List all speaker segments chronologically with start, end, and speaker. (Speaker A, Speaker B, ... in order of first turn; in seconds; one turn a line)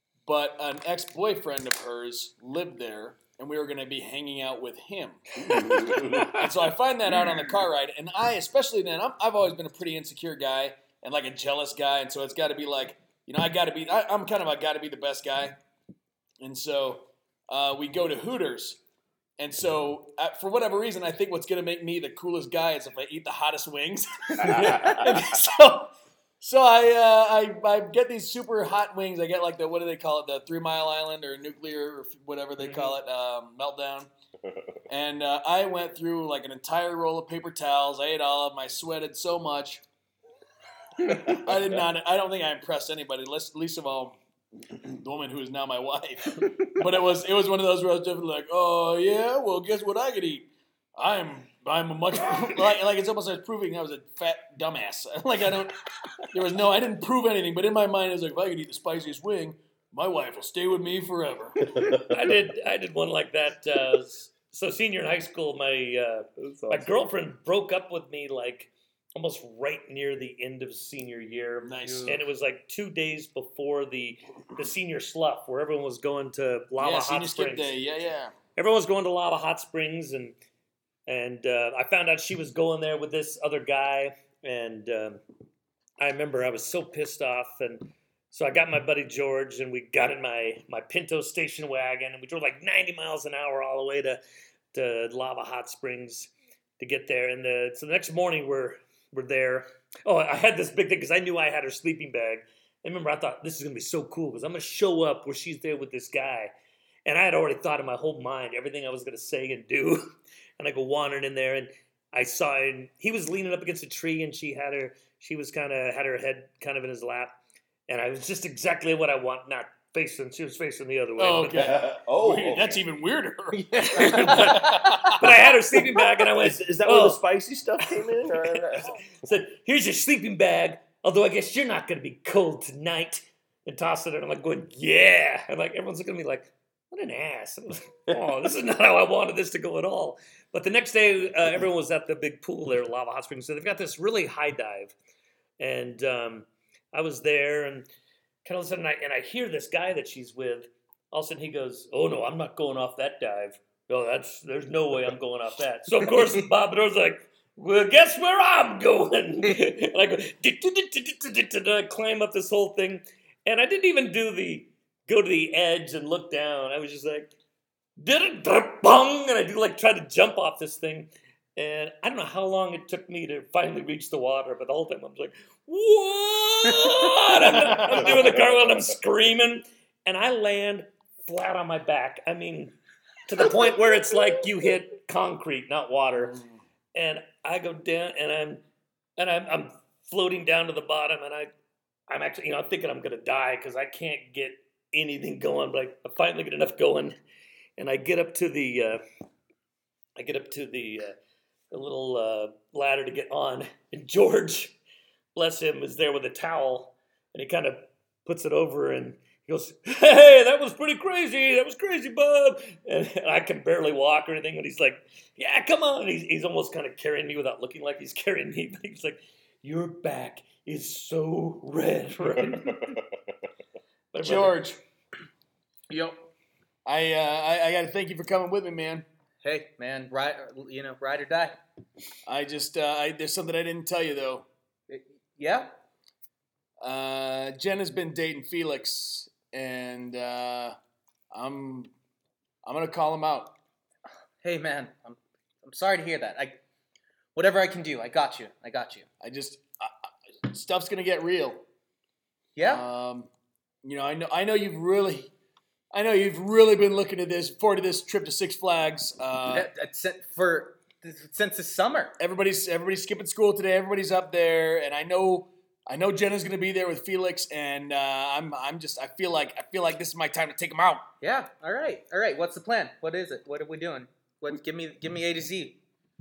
Speaker A: 0.3-5.2
Speaker B: 5.4-6.3
Speaker C: 5.7-6.4
Speaker A: 6.2-15.6
Speaker A: 16.4-18.8
Speaker A: 19.4-34.1
Speaker B: 24.5-25.0
Speaker C: 32.6-32.9
Speaker A: 34.9-39.8
Speaker A: 41.1-44.2
Speaker A: 44.9-61.7
Speaker B: 61.7-62.2
Speaker C: 61.9-77.8
Speaker B: 66.4-67.1
Speaker A: 71.6-72.2
Speaker A: 76.8-78.3
Speaker C: 78.6-80.3
Speaker C: 81.1-85.2
Speaker C: 86.0-94.2
Speaker C: 94.7-106.5
Speaker C: 107.1-110.0
Speaker C: 110.6-117.4
Speaker C: 117.9-121.8
Speaker A: 121.2-125.2
Speaker B: 121.5-122.8
Speaker D: 123.5-125.1
Speaker C: 123.9-127.2
Speaker B: 126.3-129.0
Speaker C: 127.8-144.9
Speaker C: 145.6-147.9
Speaker C: 148.4-167.3
Speaker C: 168.0-182.7
Speaker B: 177.9-178.8
Speaker C: 183.3-186.4
Speaker A: 186.2-186.5
Speaker C: 186.9-188.6
Speaker C: 189.2-191.5
Speaker C: 192.1-197.2
Speaker C: 197.8-199.0
Speaker C: 200.2-201.2
Speaker C: 201.7-204.8
Speaker C: 205.3-223.0
Speaker B: 222.4-223.0
Speaker C: 224.1-224.6
Speaker A: 224.2-224.8
Speaker D: 225.9-226.2
Speaker A: 226.9-229.1
Speaker D: 229.4-231.6
Speaker A: 232.3-234.5
Speaker D: 234.9-235.7
Speaker A: 236.8-240.8
Speaker A: 241.3-241.9
Speaker A: 242.7-243.6
Speaker D: 244.4-246.6
Speaker D: 247.3-249.1
Speaker A: 249.2-251.6
Speaker D: 252.6-252.8
Speaker A: 252.6-253.3
Speaker A: 253.8-255.3
Speaker A: 255.9-259.7
Speaker D: 259.5-262.2
Speaker A: 262.2-271.1
Speaker D: 271.2-275.8